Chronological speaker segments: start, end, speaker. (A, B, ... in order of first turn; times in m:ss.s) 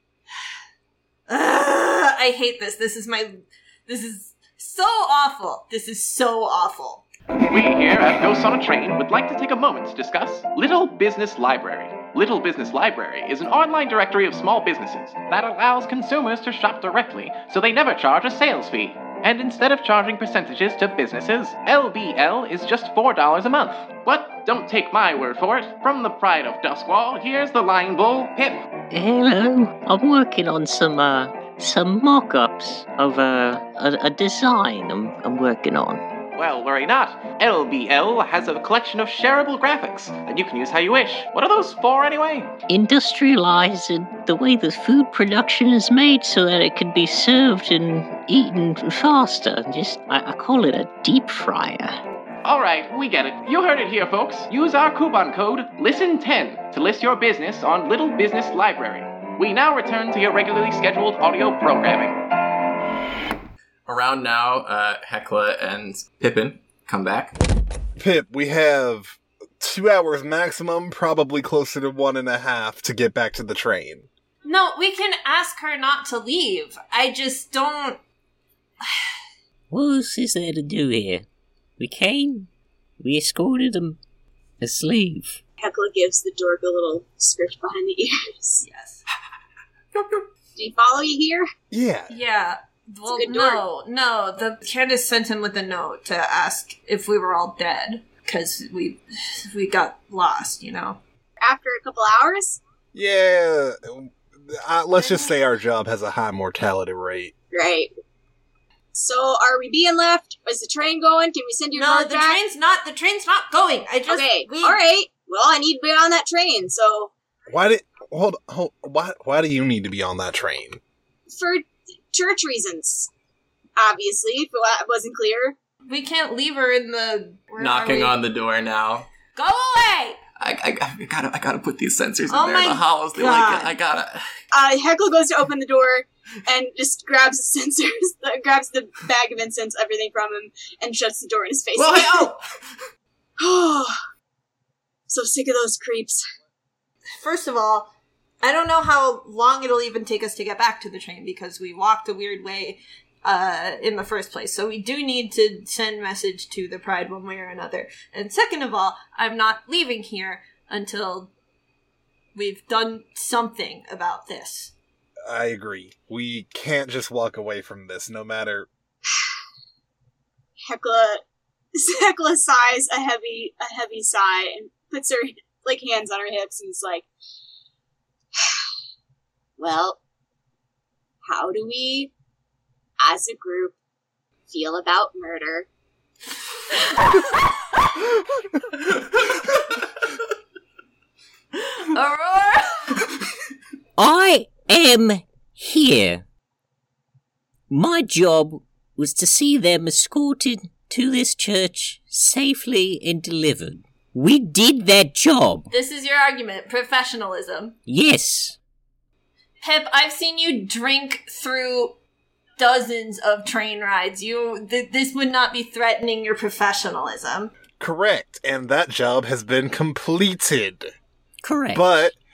0:01.3-0:07.0 A
0:07.4-0:28.6 B
0:28.9-0:36.0 C
0:36.3-0:42.5 B
0:42.7-0:52.0 C
0:52.4-1:02.2 B
1:03.9-1:07.4 D
1:08.0-1:14.1 E
1:14.4-1:18.0 A
1:18.8-1:19.1 A
1:19.7-1:21.2 C
1:21.8-1:22.5 C
1:23.0-1:24.0 C
1:24.6-1:25.4 C
1:25.6-1:28.6 F
1:28.6-1:29.0 A
1:29.9-1:30.2 D
1:30.6-1:31.5 F
1:31.7-1:32.1 E
1:32.1-1:41.0 A
1:33.1-1:33.6 F
1:41.4-1:42.6 F
1:42.9-1:47.3 E
1:45.0-1:45.3 A
1:47.5-1:47.9 F
1:48.9-1:52.4 F
1:51.7-1:54.8 A
1:54.1-1:57.1 F
1:57.5-2:00.8 E
2:01.3-2:03.1 F
2:03.8-2:05.5 F
2:05.9-2:08.1 A
2:07.6-2:09.1 D
2:09.3-2:10.2 A
2:10.4-2:14.2 D
2:12.3-2:13.7 A
2:14.5-2:22.3 F
2:21.8-2:22.4 D
2:23.4-2:23.9 F
2:25.1-2:26.2 F
2:27.2-2:27.9 A
2:28.4-2:41.3 A
2:42.3-2:44.7 A
2:45.2-2:48.7 E
2:50.7-2:51.2 F
2:51.8-2:57.1 F
2:59.6-3:00.0 F
3:01.2-3:02.1 F
3:03.0-3:03.7 F
3:04.5-3:05.7 F
3:11.8-3:13.1 A
3:14.0-3:16.2 C
3:17.7-3:25.7 C
3:25.7-3:27.8 A
3:27.9-3:28.6 C
3:29.6-3:32.0 A
3:32.6-3:37.5 A
3:37.8-3:40.9 E
3:41.4-3:41.8 C
3:41.7-3:42.2 E